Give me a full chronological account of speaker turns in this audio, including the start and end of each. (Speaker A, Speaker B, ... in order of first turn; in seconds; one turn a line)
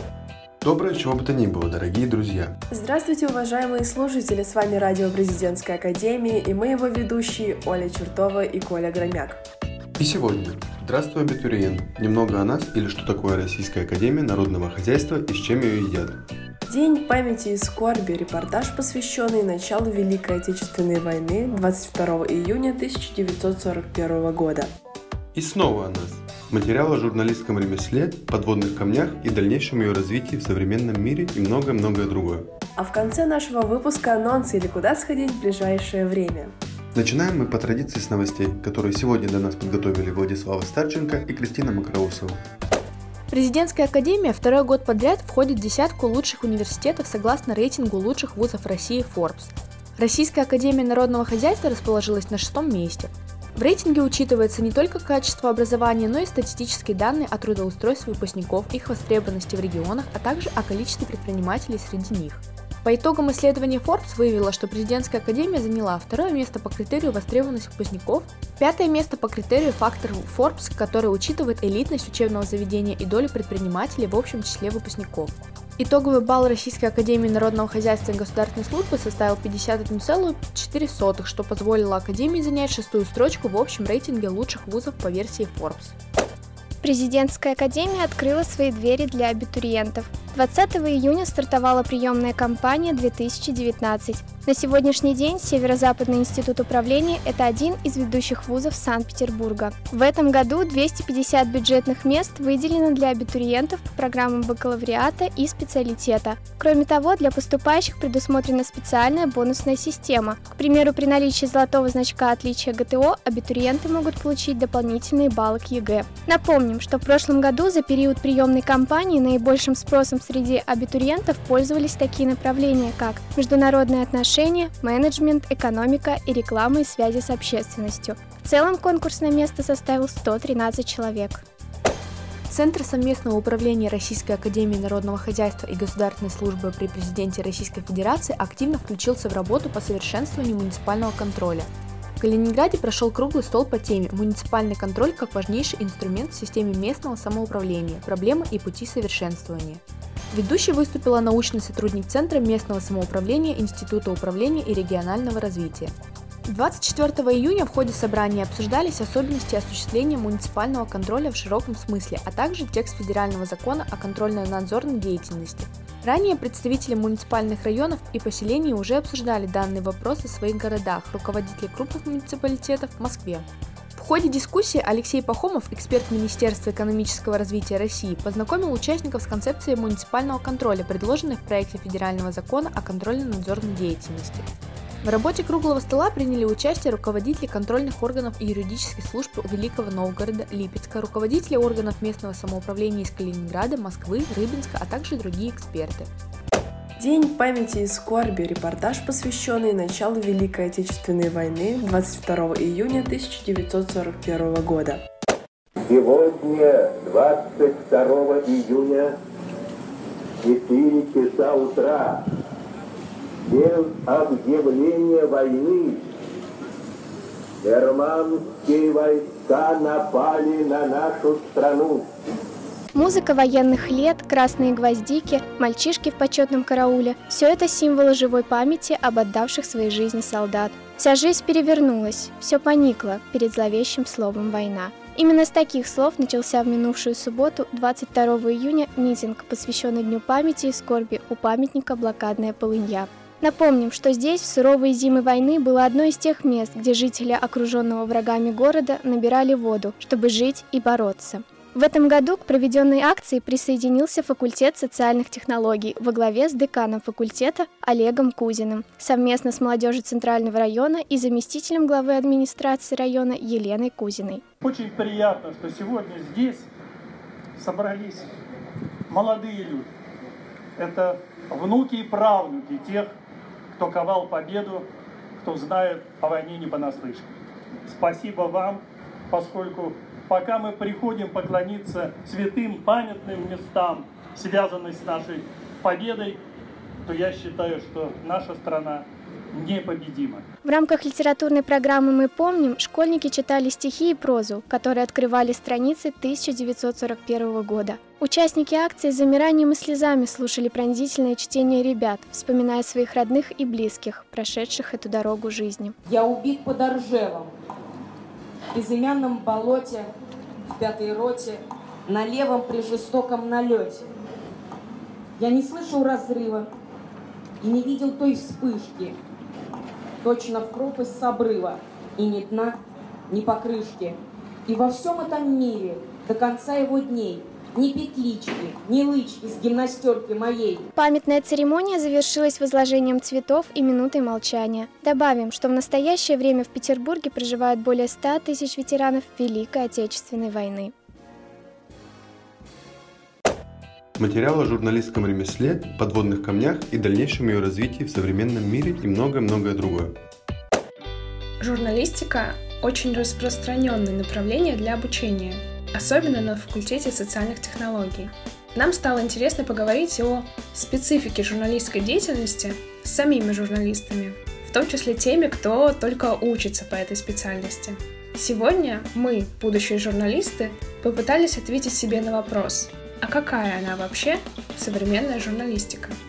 Speaker A: 0.6-2.6
Speaker B: 2.7-9.4
Speaker A: 10.0-16.2
Speaker B: 16.7-24.7
Speaker A: 25.3-32.5
Speaker B: 32.8-36.5
Speaker A: 36.9-42.4
Speaker C: 43.3-85.9
Speaker D: 86.8-131.2
Speaker C: 132.5-141.7
Speaker C: 142.2-155.9
Speaker C: 156.4-184.5
Speaker C: 185.0-196.1
Speaker B: 197.0-205.0
Speaker E: 206.3-209.0
Speaker E: 210.7-212.1
Speaker E: 213.8-215.7
Speaker D: 223.3-264.4
Speaker F: 264.6-266.6
Speaker F: 267.6-268.3
Speaker F: 269.1-269.8
Speaker F: 270.8-273.0
Speaker F: 273.8-274.8
Speaker F: 275.4-277.2
Speaker F: 277.9-278.8
Speaker F: 279.3-286.4
Speaker F: 287.1-289.0
Speaker F: 289.6-290.4
Speaker D: 290.7-305.8
Speaker G: 306.1-307.5
Speaker G: 308.8-310.0
Speaker G: 310.8-311.5
Speaker G: 312.1-314.0
Speaker G: 315.4-316.6
Speaker G: 317.6-319.1
Speaker G: 320.2-322.7
Speaker G: 323.3-324.1
Speaker G: 324.7-330.8
Speaker D: 331.5-338.6
Speaker D: 339.3-340.8
Speaker A: 344.2-350.1
Speaker H: 351.6-376.1